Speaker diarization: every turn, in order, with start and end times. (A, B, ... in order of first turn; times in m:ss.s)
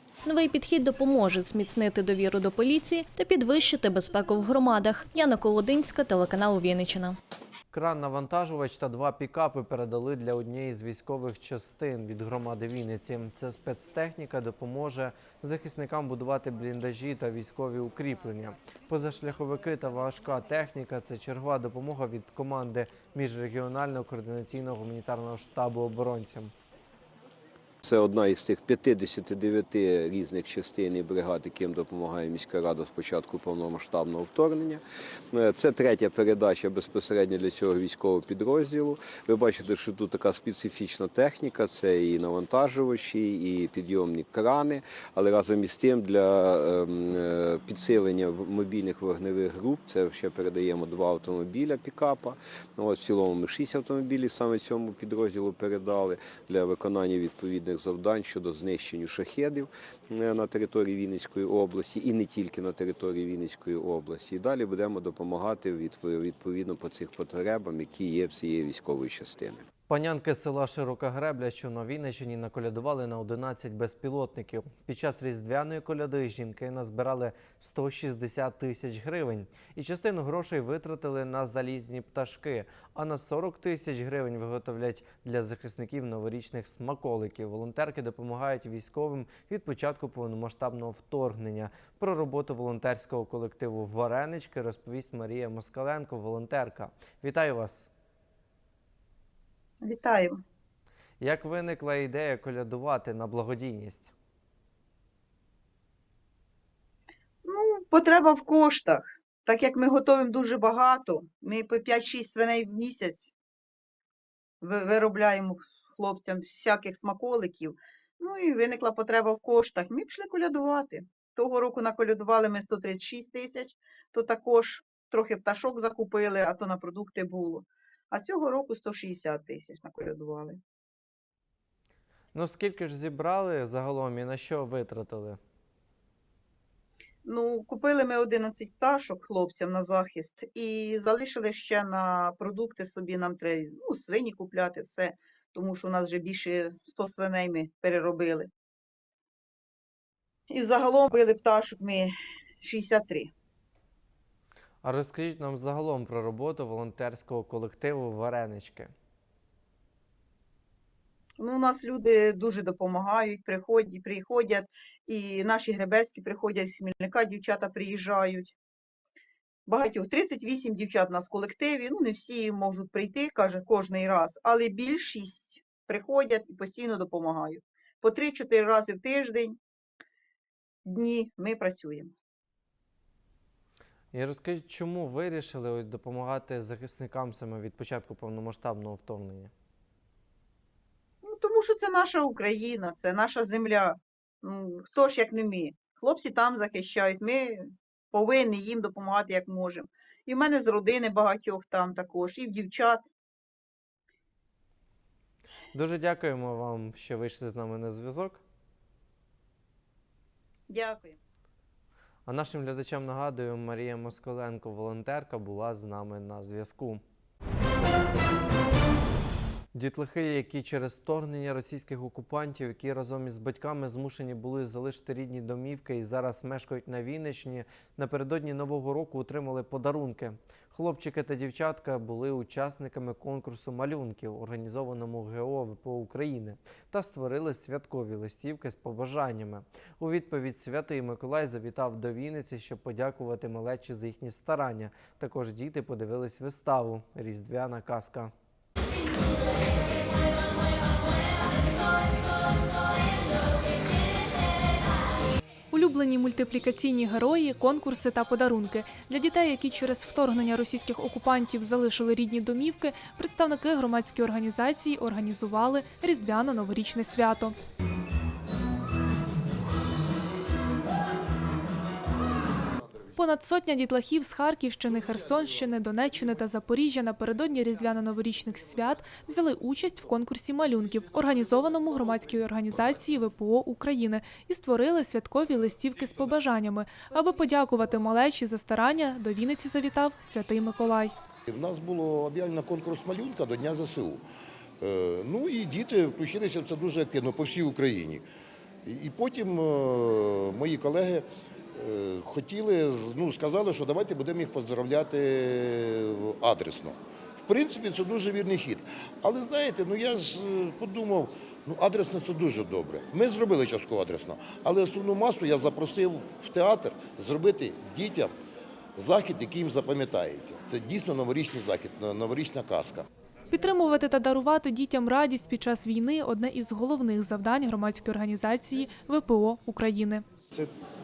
0:00.2-0:07.2 A
0:07.7-0:26.5 B
0:27.8-0:34.8 C
0:35.3-1:09.6 C
1:09.9-1:37.9 B
1:39.8-1:40.4 D
1:41.2-1:44.1 B
1:47.4-1:53.3 D
1:54.6-2:10.6 D
2:12.3-2:15.4 B
2:17.2-2:28.5 D
2:30.5-2:33.3 D
2:34.8-2:38.9 B
2:41.4-2:48.5 D
2:49.7-2:59.6 D
3:00.8-3:02.1 D
3:04.1-3:09.5 B
3:11.2-3:23.1 D
3:25.7-3:28.4 B
3:30.7-3:31.2 D
3:32.2-3:37.0 B
3:39.7-4:08.3 B
4:15.7-4:27.5 E
4:33.2-4:51.1 E
4:51.5-4:54.2 F
4:54.8-4:58.2 F
4:58.8-5:18.3 F
5:19.0-5:23.0 F
5:23.5-5:30.2 E